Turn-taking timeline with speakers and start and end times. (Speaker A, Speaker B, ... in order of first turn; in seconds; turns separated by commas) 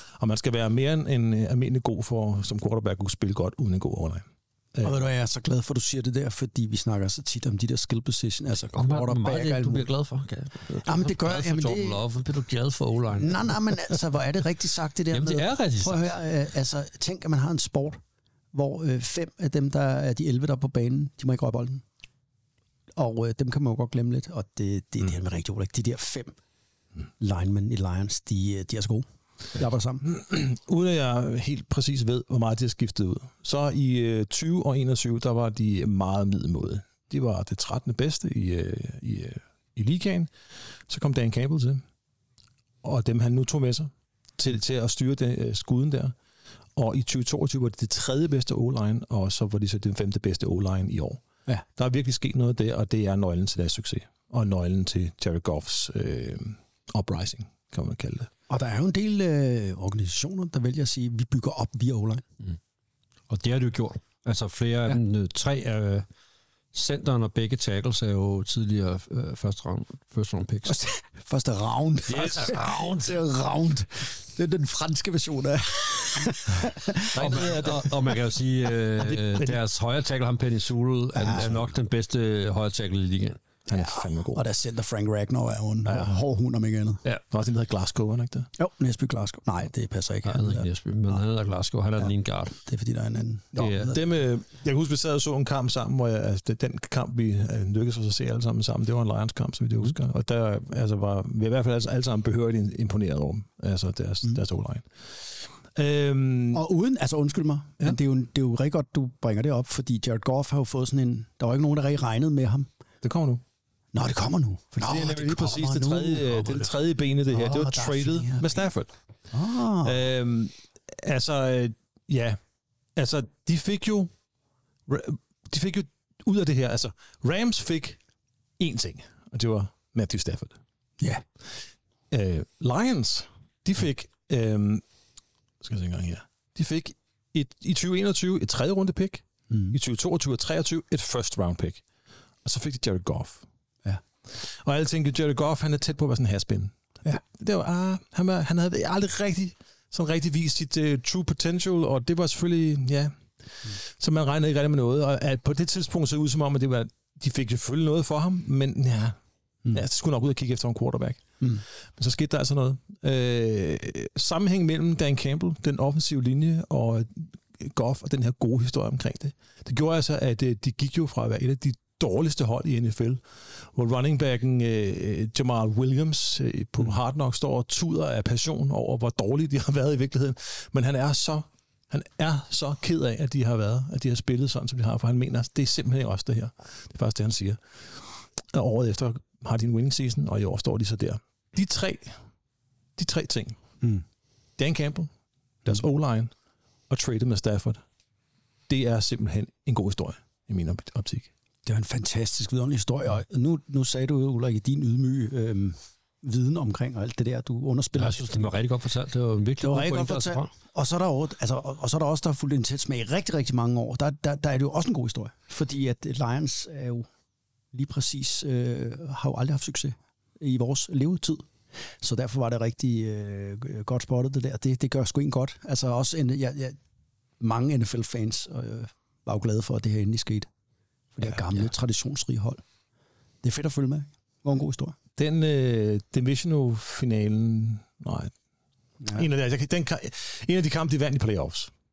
Speaker A: 0.2-4.2, Speaker B: 4.8-9.9, Speaker C: 8.7-13.5, Speaker B: 10.8-12.0, Speaker B: 13.1-18.0, Speaker C: 15.1-16.1, Speaker B: 18.5-21.8, Speaker B: 22.9-26.3, Speaker B: 27.2-30.0, Speaker A: 30.0-40.3, Speaker A: 40.9-41.8, Speaker A: 42.8-46.1, Speaker A: 46.8-51.2, Speaker A: 51.8-58.3, Speaker B: 58.5-62.2, Speaker C: 63.3-66.0, Speaker C: 66.7-70.8, Speaker B: 70.7-77.8, Speaker C: 72.1-73.2, Speaker A: 77.1-77.9, Speaker C: 77.2-83.4, Speaker A: 79.0-79.6, Speaker B: 81.2-81.6, Speaker A: 83.7-84.4, Speaker B: 83.7-87.0, Speaker A: 85.9-86.1, Speaker A: 87.3-88.5, Speaker B: 88.6-90.7, Speaker C: 90.2-92.6, Speaker B: 92.0-94.0, Speaker A: 93.5-106.6, Speaker C: 93.6-93.9, Speaker B: 106.5-112.7, Speaker A: 113.0-113.4, Speaker B: 113.9-116.7, Speaker A: 114.8-118.9, Speaker B: 117.2-118.7, Speaker B: 119.3-120.1, Speaker A: 119.8-122.4, Speaker A: 123.0-124.1, Speaker A: 124.9-128.0, Speaker A: 128.6-130.6, Speaker A: 132.1-134.8, Speaker A: 135.6-141.8, Speaker B: 139.5-139.8, Speaker A: 142.4-143.4, Speaker A: 144.3-159.2, Speaker A: 159.7-161.2, Speaker A: 162.0-173.2, Speaker A: 173.7-187.6, Speaker A: 188.5-192.1, Speaker A: 193.0-193.6, Speaker A: 194.6-195.1, Speaker A: 195.6-196.3, Speaker A: 196.9-197.8, Speaker A: 198.7-201.3, Speaker B: 201.6-208.5, Speaker C: 207.9-210.5, Speaker B: 209.6-217.1, Speaker B: 217.7-221.5, Speaker B: 222.0-226.8, Speaker B: 227.4-230.5, Speaker B: 231.1-232.6, Speaker B: 233.4-235.0, Speaker A: 235.2-238.3, Speaker B: 239.0-239.3, Speaker A: 239.1-241.7